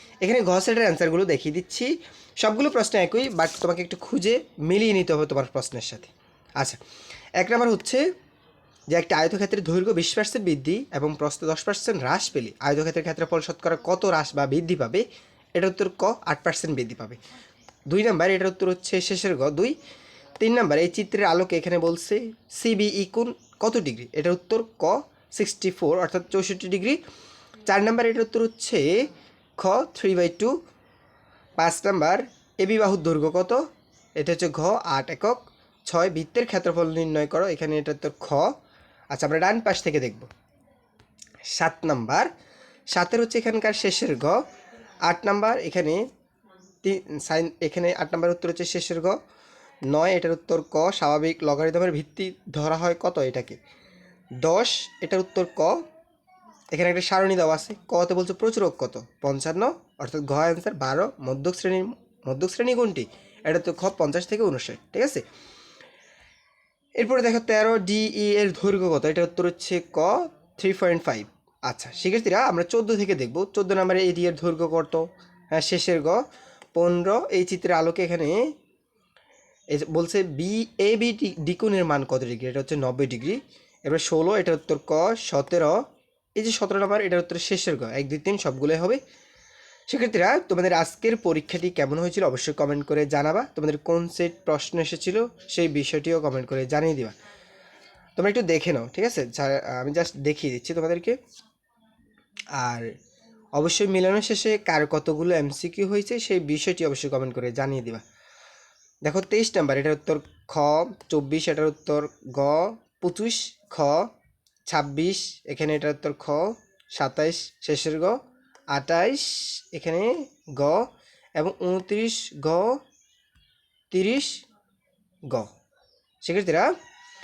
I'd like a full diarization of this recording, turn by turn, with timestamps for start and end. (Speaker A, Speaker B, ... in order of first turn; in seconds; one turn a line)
Speaker A: 0.2-6.8
Speaker A: 7.4-8.0
Speaker A: 8.9-15.0
Speaker A: 15.6-17.2
Speaker A: 17.9-19.8
Speaker A: 20.4-27.0
Speaker A: 27.6-30.5
Speaker A: 31.6-33.6
Speaker A: 34.1-38.5
Speaker A: 39.1-40.3
Speaker A: 41.5-42.3
Speaker A: 42.9-44.4
Speaker A: 45.0-46.0
Speaker A: 46.8-49.2
Speaker A: 49.9-53.6
Speaker A: 54.4-55.8
Speaker A: 56.7-65.2
Speaker A: 67.0-76.2
Speaker A: 76.8-78.4
Speaker A: 79.7-85.8
Speaker A: 86.3-89.0
Speaker A: 89.9-97.1
Speaker A: 98.2-101.2
Speaker A: 102.5-102.9
Speaker A: 103.5-108.0
Speaker A: 109.0-114.1
Speaker A: 114.7-118.2
Speaker A: 118.7-122.8
Speaker A: 123.9-124.4
Speaker A: 126.2-126.7